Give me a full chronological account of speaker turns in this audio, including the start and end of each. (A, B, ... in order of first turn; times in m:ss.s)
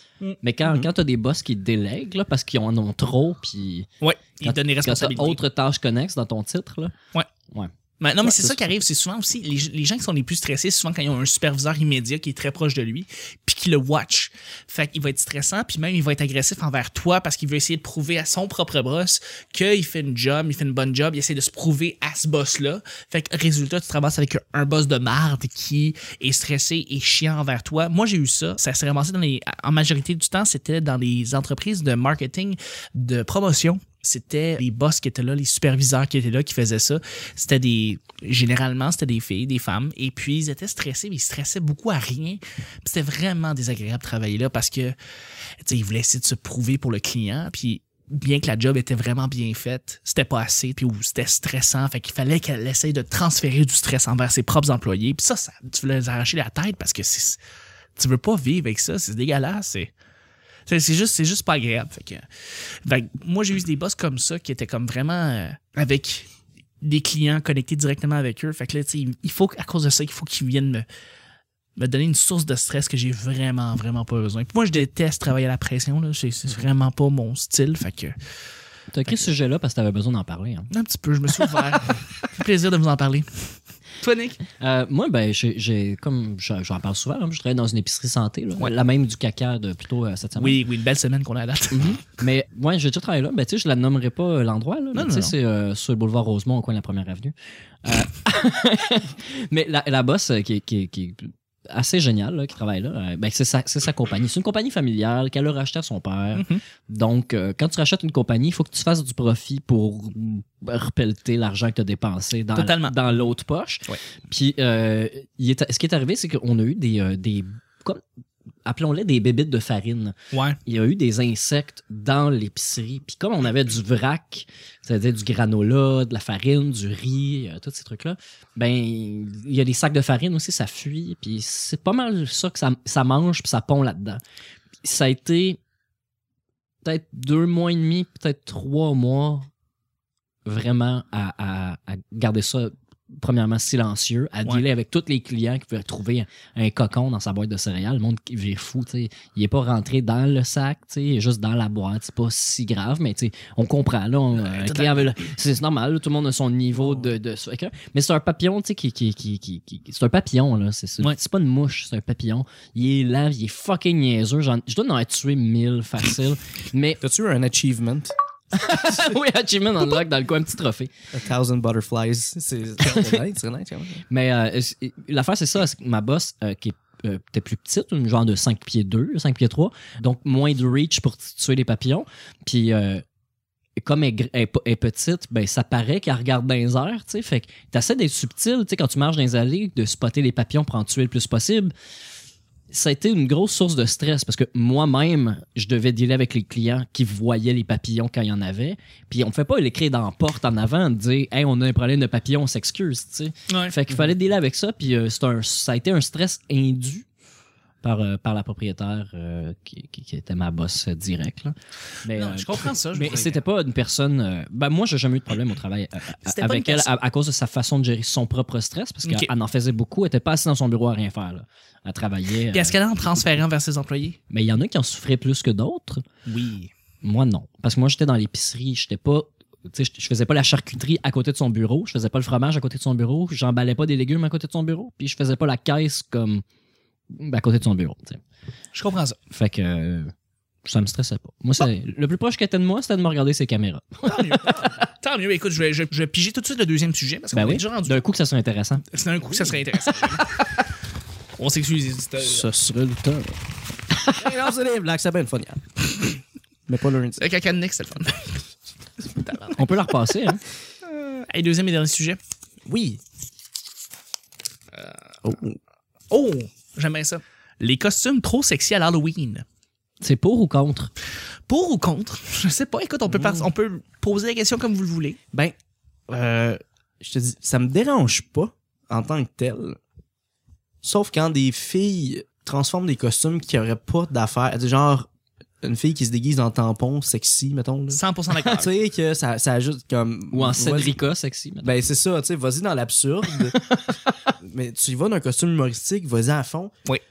0:00.4-0:03.9 A
0:00.6-0:00.9 B
0:04.0-0:05.4 C
0:04.4-0:06.9 A
0:08.0-0:45.0 C
0:08.2-0:08.6 A
0:45.6-0:57.4 C
0:58.0-0:59.9 C
1:00.6-1:02.2 C
1:02.8-1:06.3 C
1:06.8-1:10.8 C
1:11.8-1:18.2 C
1:18.9-1:20.7 A
1:19.0-1:19.3 C
1:20.7-1:24.4 C
1:24.6-1:30.6 A
1:30.4-1:32.0 C
1:31.7-1:58.0 A
1:34.9-1:35.3 C
1:46.3-1:46.6 C
1:52.5-1:53.0 C
1:58.6-2:14.2 A
2:00.3-2:00.6 C
2:14.8-2:15.6 A
2:16.8-2:19.5 A
2:20.4-2:47.0 A
2:34.3-2:35.3 C
2:36.7-2:37.1 B
2:47.0-2:48.1 B
2:48.5-2:50.9 A
2:51.1-2:54.0 B
2:52.8-2:53.2 A
2:54.1-3:03.0 A
3:03.8-3:11.7 A
3:12.7-3:27.0 A
3:23.5-3:23.8 C
3:27.8-3:43.3 A
3:32.1-3:33.4 C
3:36.2-3:36.9 C
3:39.0-3:39.3 C
3:42.5-3:44.2 C
3:44.3-3:46.0 A
3:46.3-3:46.7 C
3:47.0-3:56.4 A
3:57.2-3:58.2 A
3:58.7-3:59.2 C
3:59.3-4:00.1 A
4:00.6-4:04.7 A
4:04.0-4:08.0 C
4:07.3-4:08.8 A
4:08.9-4:10.5 C
4:11.4-4:12.5 C
4:12.2-4:13.3 B
4:14.2-4:15.6 B
4:16.7-4:17.2 B
4:17.2-4:18.4 C
4:19.0-4:19.9 C
4:19.6-4:20.4 A
4:20.9-4:22.2 C
4:22.6-4:23.0 B
4:25.2-4:25.6 B
4:26.1-4:29.4 C
4:30.0-4:30.9 A
4:31.5-4:35.2 C
4:33.1-4:33.5 B
4:36.1-4:39.8 B
4:40.8-4:45.1 B
4:45.6-4:50.9 B
4:47.9-4:48.7 C
4:50.3-4:51.7 A
4:51.6-4:53.6 B
4:53.3-4:54.3 A
4:54.4-4:56.7 B